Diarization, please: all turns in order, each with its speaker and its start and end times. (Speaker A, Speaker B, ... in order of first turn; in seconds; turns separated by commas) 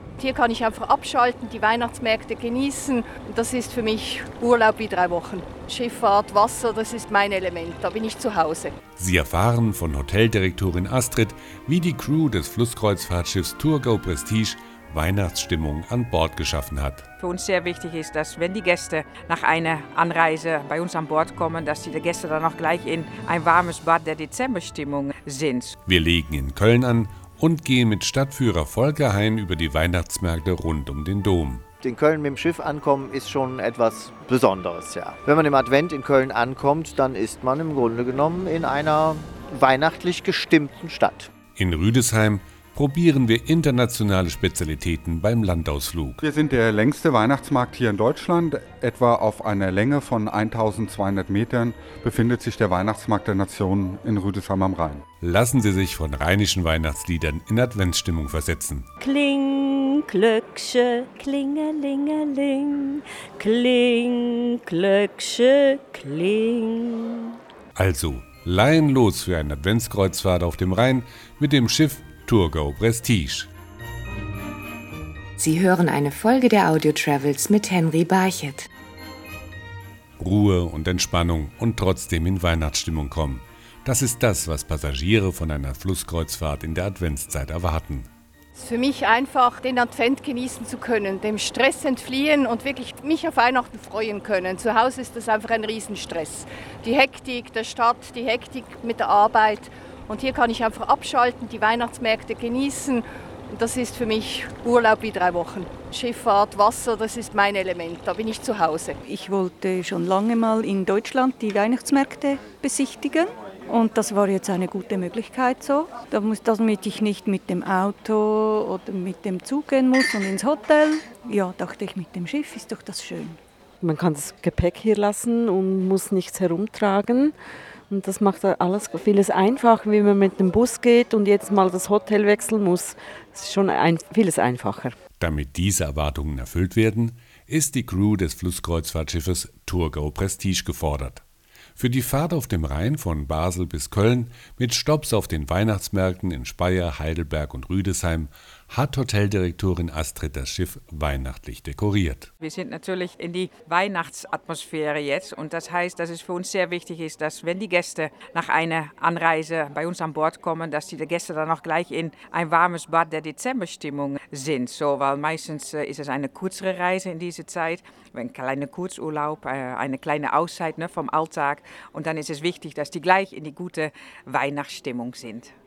Speaker A: 0.2-8.7, Speaker B: 9.0-17.1, Speaker C: 17.2-25.8, Speaker B: 25.9-31.6, Speaker D: 31.8-41.3, Speaker B: 41.6-46.2, Speaker E: 46.2-55.0, Speaker B: 55.2-58.9, Speaker F: 59.0-67.3, Speaker B: 67.7-73.5, Speaker G: 75.4-78.6, Speaker B: 80.2-88.1, Speaker A: 88.5-108.9, Speaker H: 109.0-123.4, Speaker I: 123.8-127.3, Speaker I: 127.9-134.9, Speaker B: 135.2-141.2, Speaker B: 141.8-152.3, Speaker C: 152.4-175.5